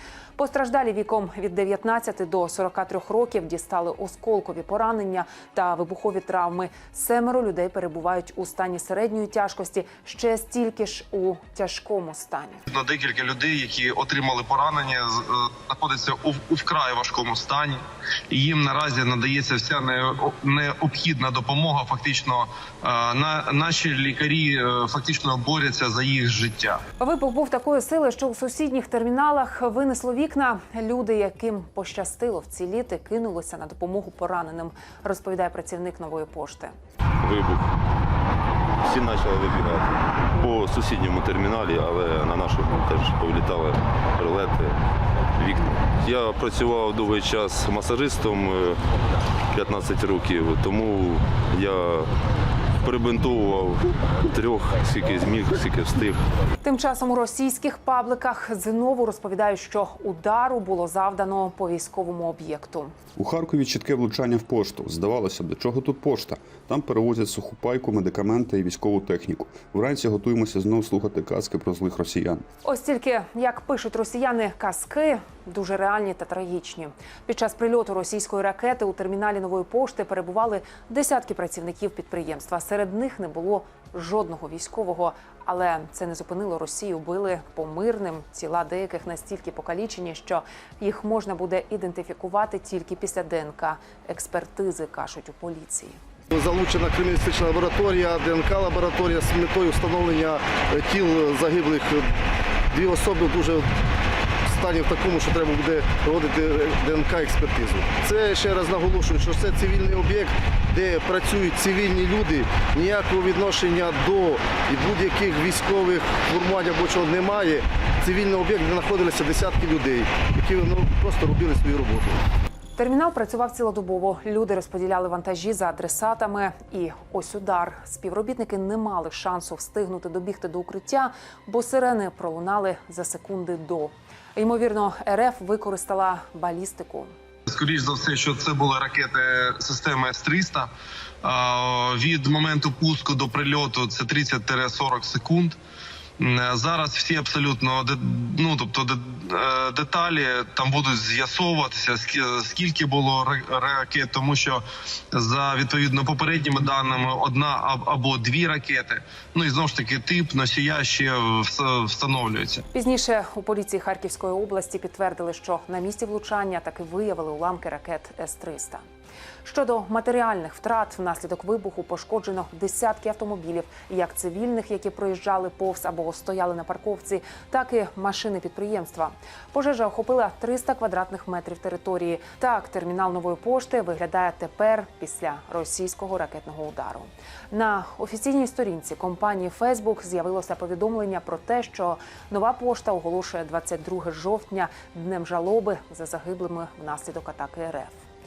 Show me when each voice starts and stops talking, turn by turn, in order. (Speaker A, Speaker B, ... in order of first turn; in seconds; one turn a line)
Speaker A: 0.4-12.6
Speaker B: 12.7-26.8
Speaker A: 27.0-36.7
Speaker C: 37.2-37.7
Speaker C: 38.8-44.8
Speaker C: 45.4-48.8
Speaker C: 49.5-52.1
Speaker C: 52.8-56.2
Speaker A: 56.6-62.9
Speaker D: 63.2-72.4
Speaker A: 72.6-96.0
Speaker E: 96.3-102.1
Speaker E: 102.7-103.7
Speaker E: 104.5-122.2
Speaker A: 122.8-137.1
Speaker B: 137.5-140.7
Speaker B: 141.2-145.6
Speaker B: 146.2-154.6
Speaker B: 155.1-162.6
Speaker A: 162.7-168.8
Speaker A: 169.4-198.0